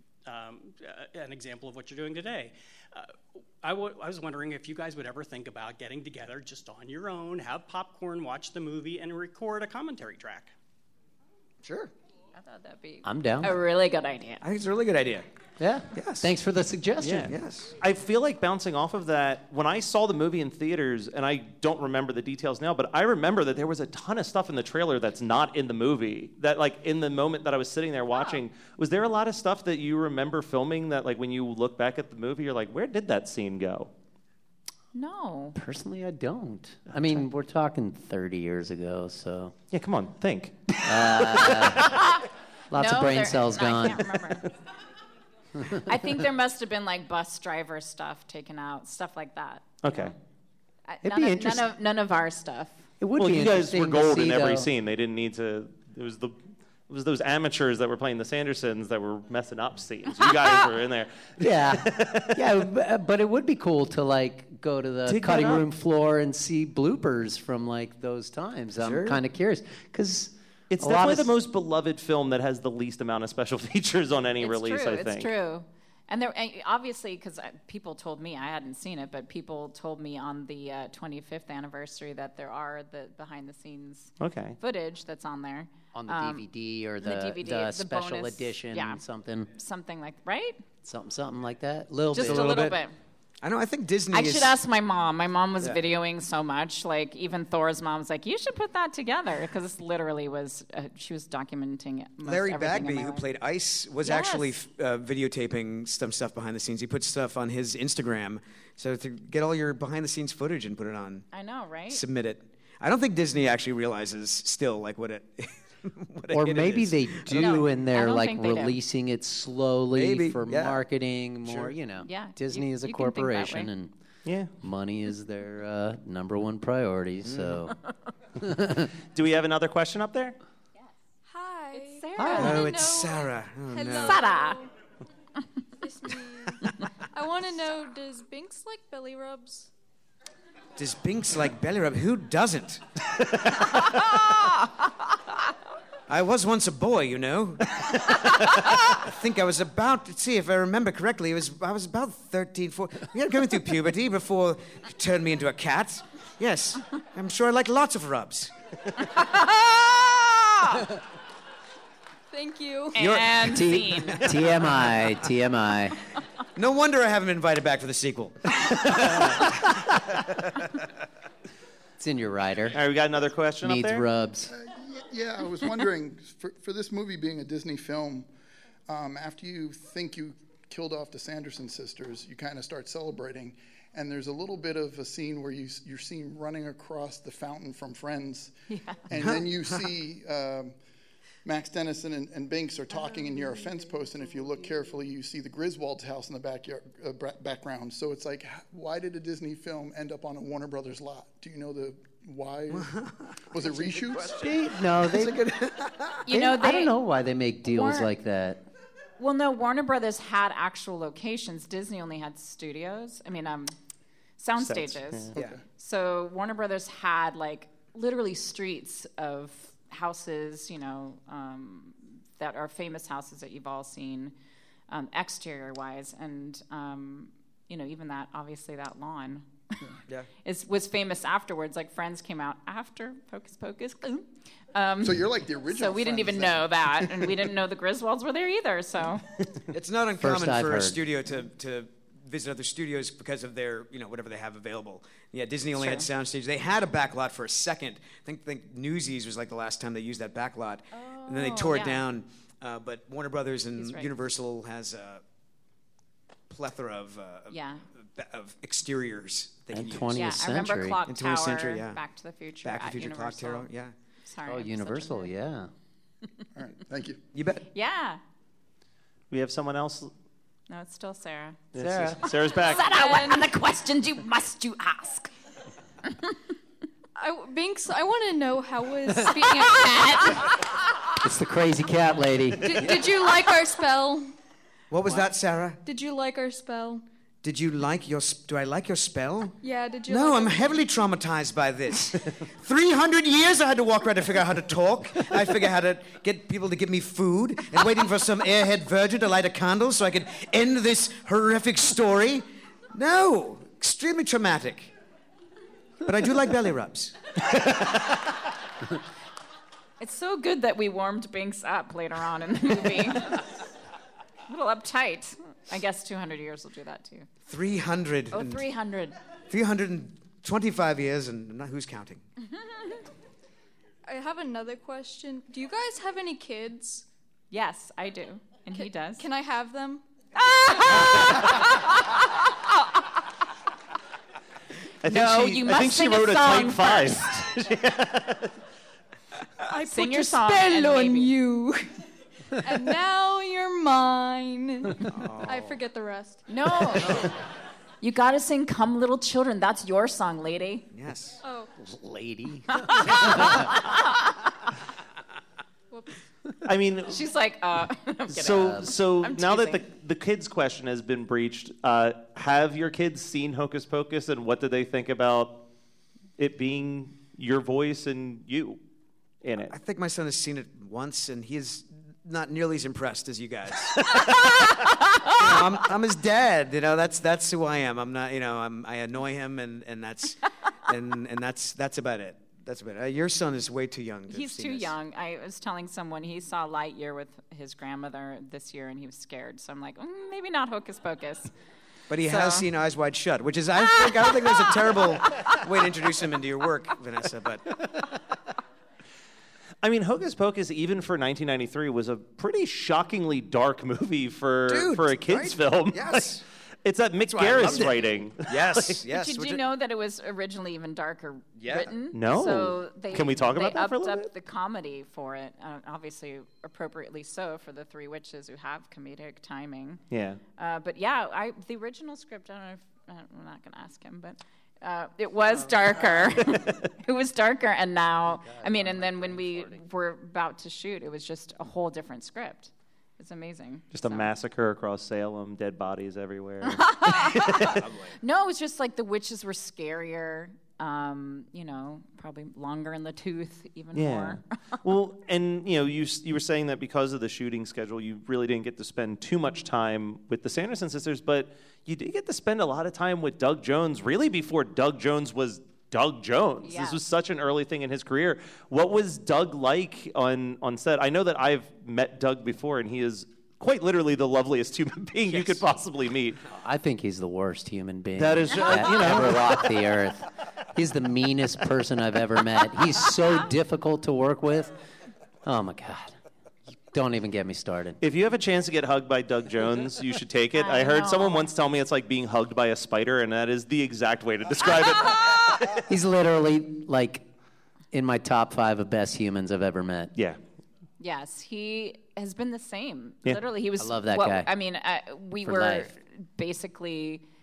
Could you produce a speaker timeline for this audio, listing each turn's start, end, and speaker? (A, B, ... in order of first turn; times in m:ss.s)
0:00.2-0:10.5 A
0:11.6-0:11.9 B
0:12.3-0:14.4 C
0:13.0-0:13.6 D
0:14.4-0:15.2 B
0:15.6-0:17.4 D
0:15.9-0:16.3 B
0:17.0-0:17.7 B
0:17.8-0:33.9 E
0:34.9-0:35.6 C
0:35.5-0:39.6 D
0:39.7-0:41.9 E
0:40.8-0:41.9 D
0:42.7-0:44.0 D
0:42.8-0:44.4 C
0:45.8-0:50.1 C
0:49.8-0:50.1 E
0:50.9-0:52.8 C
0:51.0-0:51.6 D
0:53.0-0:54.7 D
0:53.2-0:56.4 E
0:56.9-1:02.4 E
1:01.4-1:11.3 D
1:05.0-1:05.7 E
1:08.8-1:09.2 B
1:10.7-1:15.3 E
1:14.4-1:26.4 C
1:24.2-1:24.6 E
1:25.9-1:29.5 D
1:27.0-1:29.0 C
1:29.5-1:30.6 C
1:30.8-1:32.8 D
1:32.1-1:32.9 C
1:32.2-1:32.8 B
1:33.4-1:34.6 B
1:34.1-1:43.2 C
1:42.2-1:51.2 B
1:44.0-1:44.5 C
1:51.3-1:52.0 C
1:51.9-1:57.7 B
1:56.3-2:03.9 D
1:57.3-1:58.8 C
1:59.9-2:00.8 B
2:01.4-2:01.8 B
2:02.0-2:03.7 C
2:04.2-2:04.5 E
2:04.6-2:07.7 D
2:07.2-2:07.7 B
2:08.4-2:08.9 D
2:09.1-2:10.4 E
2:11.2-2:14.7 F
2:11.7-2:12.7 C
2:12.2-2:12.6 D
2:12.4-2:14.2 B
2:14.0-2:14.6 C
2:15.8-2:19.7 F
2:20.8-2:22.8 B
2:26.1-2:38.5 B
2:39.2-2:39.7 C
2:40.4-2:40.8 C
2:42.3-2:43.0 F
2:42.9-2:44.3 C
2:43.0-2:46.0 D
2:44.1-2:45.0 B
2:46.6-2:50.6 B
2:52.0-2:52.8 D
2:52.7-2:54.0 E
2:53.6-2:54.5 D
2:54.5-2:58.3 G
2:58.9-3:08.5 G
3:08.7-3:09.0 C
3:09.1-3:10.8 G
3:09.2-3:09.9 B
3:11.4-3:22.9 G
3:22.7-3:26.3 B
3:23.5-3:24.4 G
3:24.3-3:25.4 D
3:26.3-3:26.9 C
3:26.3-3:28.6 D
3:27.7-3:28.1 C
3:29.2-3:33.7 C
3:34.4-3:44.3 C
3:34.6-3:35.3 E
3:44.9-3:49.4 C
3:50.4-3:59.2 C
3:55.0-3:57.3 G
3:59.7-4:15.2 B
4:00.2-4:01.0 D
4:05.7-4:06.0 C
4:10.9-4:12.0 C
4:13.8-4:14.1 C
4:16.5-4:20.5 B
4:17.5-4:17.8 C
4:19.7-4:21.0 D
4:20.1-4:23.7 C
4:21.0-4:22.0 B
4:22.6-4:23.9 B
4:24.2-4:25.3 C
4:24.4-4:25.7 D
4:26.6-4:27.2 G
4:27.3-4:27.6 B
4:27.7-4:28.2 C
4:29.3-4:30.1 E
4:30.7-4:31.6 C
4:31.7-4:32.9 E
4:31.8-4:32.2 D
4:32.6-4:35.3 C
4:32.8-4:33.4 F
4:37.2-4:40.5 F
4:39.8-4:40.5 C
4:41.2-4:43.0 D
4:42.6-4:44.3 F
4:44.9-4:45.8 B
4:45.8-4:47.0 F
4:47.4-5:04.9 B
4:49.6-4:50.8 F
5:06.0-5:07.2 B
5:10.0-5:13.4 C
5:14.5-5:17.3 C
5:17.4-5:18.6 B
5:18.3-5:19.2 C
5:19.5-5:22.2 B
5:24.0-5:27.0 F
5:27.5-5:29.2 C
5:28.7-5:31.6 F
5:30.6-5:31.2 C
5:35.0-5:38.5 E
5:35.0-5:37.2 C
5:39.7-5:41.9 F
5:39.8-5:41.4 C
5:42.6-5:46.4 F
5:45.1-5:45.8 B
5:46.5-5:47.3 C
5:48.0-5:50.8 C
5:50.9-5:51.4 B
5:51.4-5:51.7 F
5:51.8-5:53.8 D
5:52.8-5:53.8 C
5:55.9-5:56.2 F
5:56.6-5:57.2 E
5:57.1-5:59.8 C
5:58.3-6:05.6 E
5:58.6-5:58.9 D
6:06.4-6:08.8 E
6:09.4-6:09.7 E
6:09.7-6:14.3 B
6:15.2-6:24.9 B
6:24.3-6:31.5 C
6:32.1-6:37.8 B
6:32.3-6:32.7 C
6:34.2-6:34.7 C
6:39.8-6:49.0 E
6:44.7-6:46.4 B
6:47.2-6:49.6 B
6:49.1-7:00.0 C
6:51.6-6:51.9 B
6:52.1-6:54.3 E
7:00.1-7:00.4 E
7:00.6-7:14.3 C
7:05.6-7:06.2 D
7:06.5-7:06.8 E
7:08.2-7:09.8 D
7:13.9-7:17.8 E
7:16.6-7:24.4 C
7:17.6-7:18.1 B
7:23.9-7:46.4 E
7:36.6-7:37.0 C
7:46.5-7:54.7 D
7:48.2-7:49.6 E
7:55.4-7:56.1 D
7:56.9-7:58.0 D
7:58.0-8:05.8 E
8:00.5-8:01.4 C
8:05.9-8:07.2 D
8:07.9-8:10.1 D
8:11.0-8:17.2 C
8:13.8-8:14.5 D
8:15.4-8:15.9 D